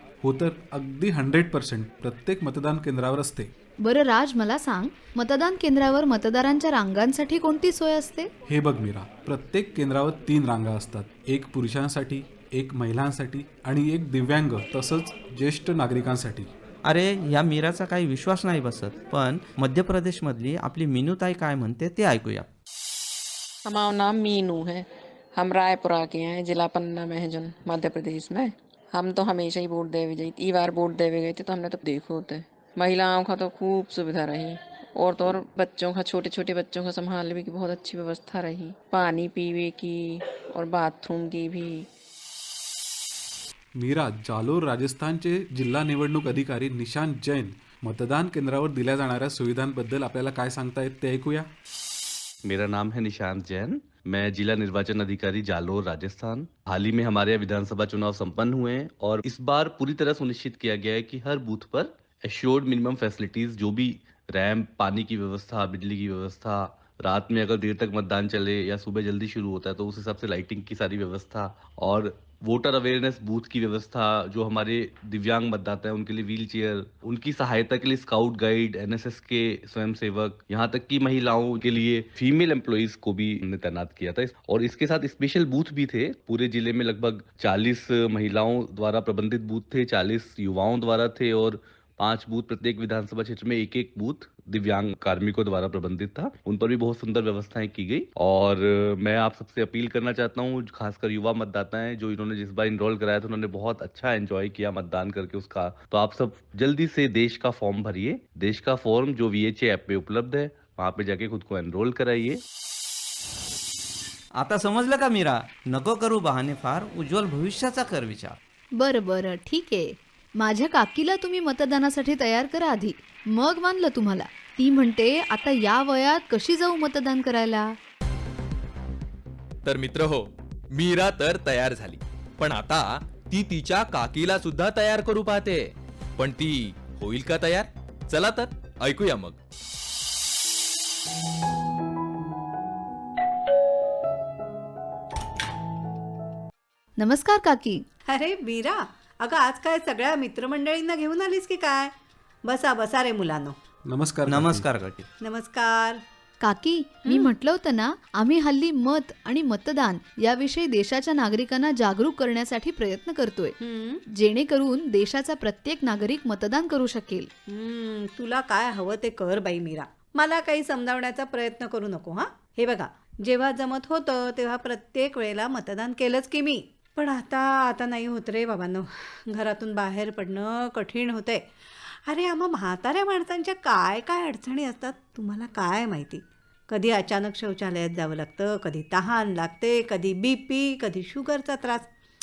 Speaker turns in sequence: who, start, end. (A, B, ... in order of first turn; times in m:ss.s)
0:00.2-0:03.5 A
0:03.8-0:08.3 B
0:08.5-0:16.5 A
0:16.8-0:22.5 C
0:23.6-0:41.9 D
0:43.8-0:51.5 A
0:52.4-1:52.4 E
1:54.4-1:58.4 C
1:58.8-2:07.7 B
2:09.6-2:19.4 F
2:27.0-2:27.8 B
2:28.0-2:33.6 G
2:33.9-2:34.6 A
2:34.3-2:35.1 C
2:35.2-2:36.0 G
2:36.4-2:43.6 B
2:37.0-2:37.3 G
2:43.6-2:44.0 G
2:44.1-2:47.3 B
2:47.5-3:11.9 G